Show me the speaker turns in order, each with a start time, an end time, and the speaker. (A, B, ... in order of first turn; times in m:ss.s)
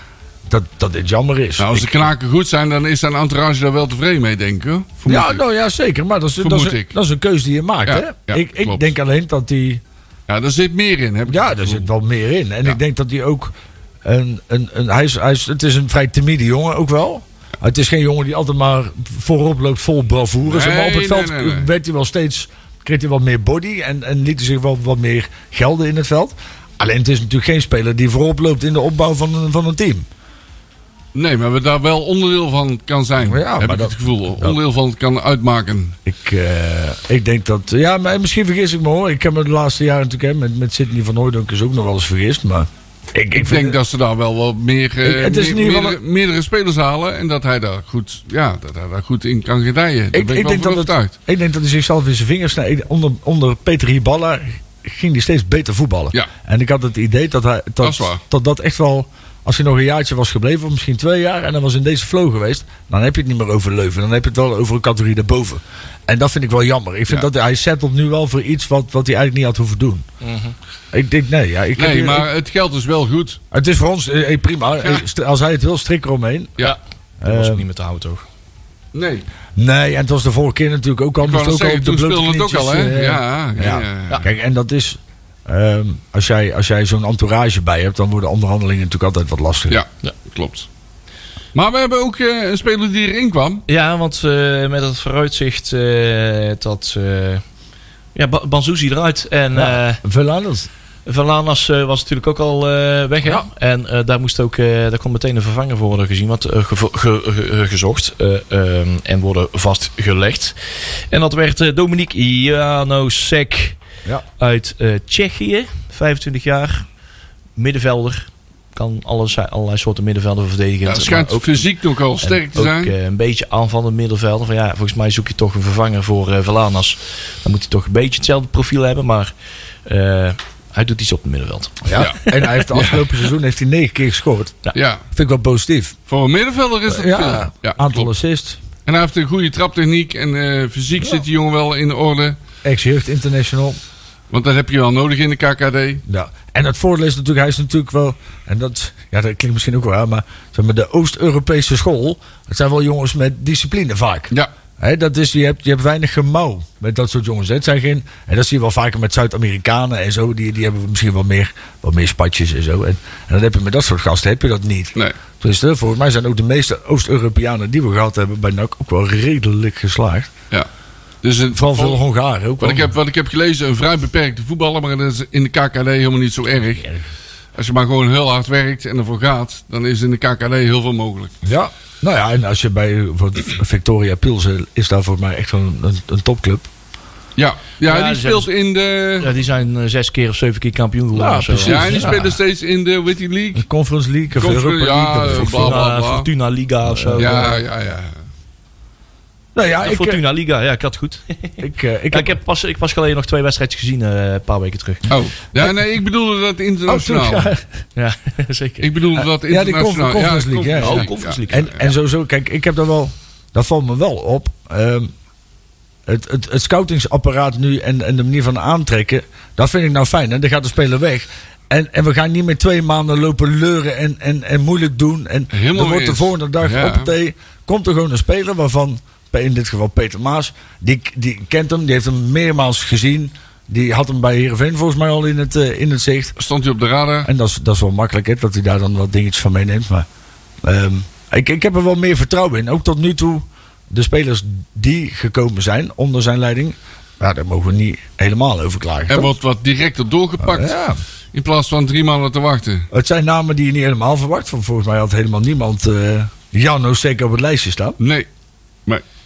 0:00.5-0:02.1 A
0:01.6-0:05.4 B
0:05.0-0:09.8 A
0:06.4-0:06.9 B
0:07.8-0:08.8 B
0:10.3-0:11.9 B
0:11.3-0:30.0 A
0:20.4-0:21.7 B
0:31.1-0:36.0 B
0:33.2-0:34.6 A
0:36.0-0:43.8 A
0:43.4-0:51.1 B
0:45.0-0:46.0 A
0:50.1-1:10.0 A
0:57.8-0:58.2 B
1:10.2-1:10.5 C
1:10.9-1:12.3 A
1:11.8-1:13.4 B
1:13.5-1:16.6 A
1:16.6-1:18.2 C
1:17.2-1:17.6 A
1:18.9-1:19.2 B
1:19.6-1:29.8 A
1:21.2-1:24.2 B
1:29.7-1:30.7 B
1:31.5-1:33.6 B
1:33.7-1:37.4 C
1:38.1-1:40.0 C
1:39.5-1:40.7 A
1:41.0-1:53.8 C
1:54.4-1:56.8 C
1:57.6-2:01.6 C
2:00.8-2:02.9 B
2:02.2-2:09.3 C
2:09.8-2:12.6 C
2:11.8-2:14.6 A
2:11.9-2:13.0 B
2:14.7-2:15.0 B
2:15.1-2:15.9 A
2:16.1-2:18.1 B
2:16.9-2:18.6 A
2:18.8-2:22.4 B
2:22.6-2:23.8 A
2:24.3-2:26.0 B
2:26.0-2:50.3 A
2:51.2-2:52.0 B
2:51.5-2:52.9 A
2:52.6-2:56.9 B
2:57.6-3:01.3 B
3:01.4-3:06.6 A
3:07.4-3:09.3 B
3:07.8-3:08.5 C
3:09.2-3:12.0 C
3:11.1-3:12.4 A
3:11.5-3:13.6 B
3:13.5-3:15.8 A
3:14.3-3:16.3 B
3:15.3-3:17.6 C
3:16.9-3:17.6 A
3:17.2-3:18.2 B
3:19.5-3:20.2 A
3:19.8-3:25.1 C
3:21.6-3:22.4 A
3:25.1-3:27.5 B
3:26.9-3:27.6 A
3:28.0-3:28.9 C
3:28.8-3:31.4 B
3:29.1-3:35.1 A
3:30.8-3:31.9 C
3:36.0-3:56.3 A
3:45.5-3:47.1 B
3:56.4-3:57.3 B
3:57.2-4:00.1 A
4:00.6-4:09.3 A
4:09.1-4:10.8 B
4:10.4-4:11.0 A
4:11.3-4:12.9 B
4:12.9-4:18.0 A
4:18.0-4:18.3 B